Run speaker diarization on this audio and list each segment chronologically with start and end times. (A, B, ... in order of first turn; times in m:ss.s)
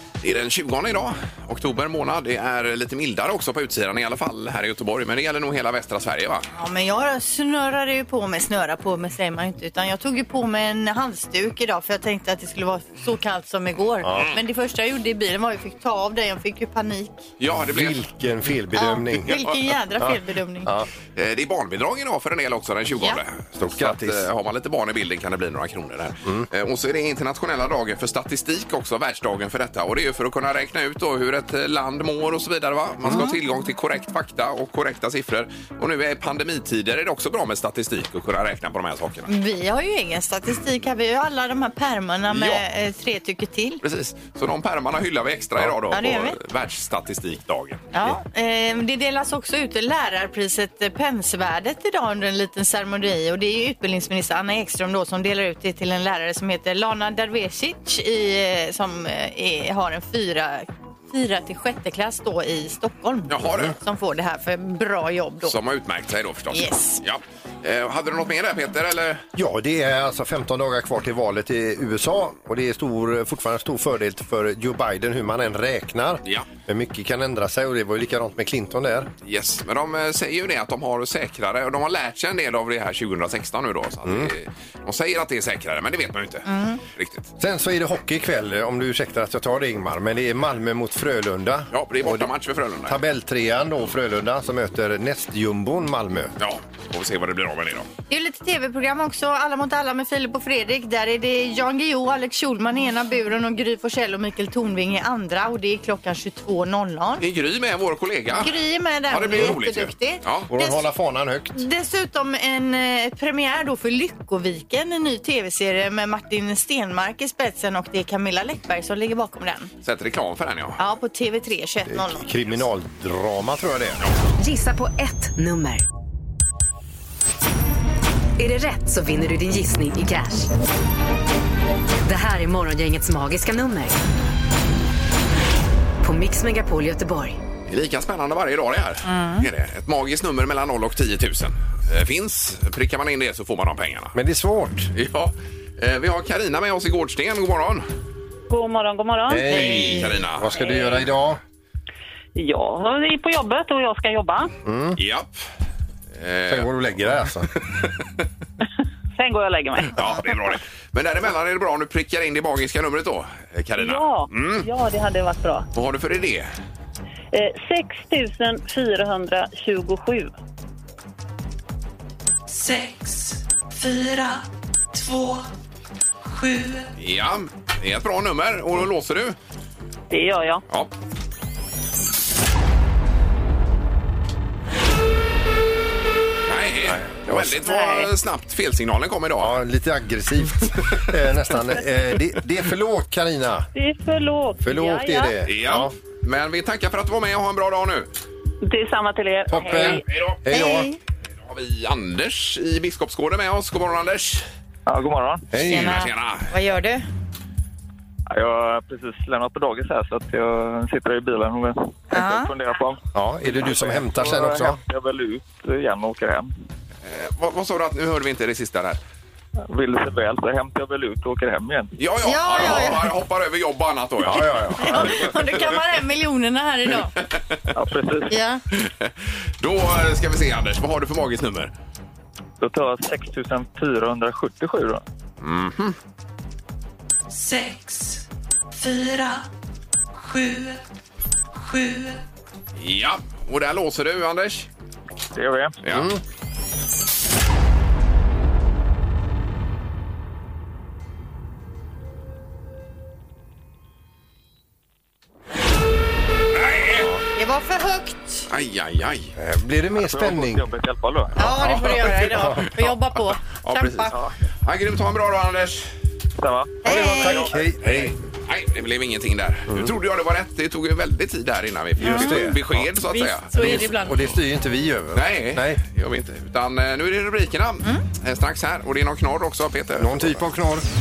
0:00.2-0:06.5 A
0:06.5-0:17.3 B
0:14.0-0:14.4 C
0:17.4-0:18.0 A
0:17.6-0:19.4 C
0:18.7-0:20.7 B
0:20.0-0:20.9 C
0:21.2-0:39.3 A
0:23.6-0:24.2 C
0:33.1-0:33.4 B
0:39.3-0:43.8 B
0:42.3-0:42.6 A
0:43.8-0:47.9 A
0:45.9-0:46.4 B
0:47.9-1:05.6 B
1:03.3-1:03.7 A
1:03.4-1:03.7 C
1:05.4-1:09.2 A
1:06.5-1:07.0 B
1:09.4-1:19.1 C
1:19.2-1:27.3 A
1:24.0-1:24.3 C
1:26.4-1:26.8 B
1:27.4-1:32.3 C
1:31.7-1:33.0 A
1:32.8-1:36.3 C
1:36.4-1:37.9 A
1:38.1-1:47.2 B
1:47.2-1:48.6 A
1:48.4-1:50.9 B
1:49.1-1:50.5 A
1:50.5-1:51.6 C
1:51.5-1:59.7 B
1:59.8-2:00.8 A
2:00.8-2:02.3 B
2:01.9-2:04.0 C
2:04.4-2:05.8 D
2:08.4-2:10.5 D
2:12.0-2:14.0 D
2:16.0-2:17.4 D
2:17.7-2:24.1 A
2:19.0-2:19.5 B
2:24.1-2:24.9 C
2:24.9-2:27.8 A
2:28.5-2:30.0 E
2:29.3-2:31.4 C
2:29.6-2:30.6 A
2:32.4-2:34.5 E
2:34.6-2:35.0 C
2:35.0-2:35.4 A
2:36.1-2:36.7 A
2:36.5-2:37.5 C
2:37.8-2:38.2 A
2:39.2-2:40.2 E
2:40.0-2:44.7 A
2:43.8-2:45.7 E
2:45.7-2:46.5 A
2:47.3-2:50.3 E
2:52.5-2:55.4 F
2:56.2-2:56.9 F
2:57.0-2:59.4 A
3:00.1-3:00.6 E
3:06.4-3:09.6 A
3:06.9-3:07.6 C
3:07.6-3:08.1 E
3:09.4-3:13.7 C
3:13.7-3:15.4 E
3:14.6-3:15.9 C
3:15.4-3:18.1 A
3:18.6-3:20.0 E
3:19.5-3:20.9 C
3:19.7-3:20.4 A
3:20.5-3:21.0 B
3:21.4-3:24.4 A
3:24.8-3:25.5 G
3:25.5-3:26.0 C
3:25.6-3:27.0 B
3:25.7-3:26.5 A
3:28.3-3:36.5 G
3:32.1-3:32.5 B
3:33.1-3:34.8 C
3:37.0-3:39.0 A
3:39.6-3:41.9 G
3:42.0-3:45.6 A
3:42.2-3:43.1 B
3:44.2-3:45.1 C
3:44.8-3:47.1 B
3:47.3-3:47.6 A
3:47.7-3:48.4 G
3:48.3-3:48.6 B
3:48.7-3:51.7 A
3:52.6-3:55.0 G
3:55.4-3:56.0 A
3:57.3-3:59.5 F
4:00.2-4:00.8 F
4:01.6-4:02.2 F
4:02.8-4:04.7 A
4:05.3-4:05.8 G
4:05.8-4:06.1 A
4:05.9-4:06.2 C
4:16.6-4:17.1 A
4:17.3-4:18.4 B
4:18.5-4:19.3 A
4:19.4-4:20.7 C
4:20.0-4:21.3 G
4:21.4-4:24.2 B
4:21.4-4:22.9 A
4:22.0-4:22.7 C
4:23.5-4:25.8 A
4:26.4-4:26.8 G
4:26.8-4:27.5 B
4:26.8-4:28.1 C
4:27.3-4:34.3 A
4:29.7-4:29.9 C
4:32.0-4:32.9 C
4:32.0-4:32.4 B
4:33.1-4:34.3 B
4:33.5-4:35.8 C
4:35.1-4:40.4 A
4:40.0-4:40.8 C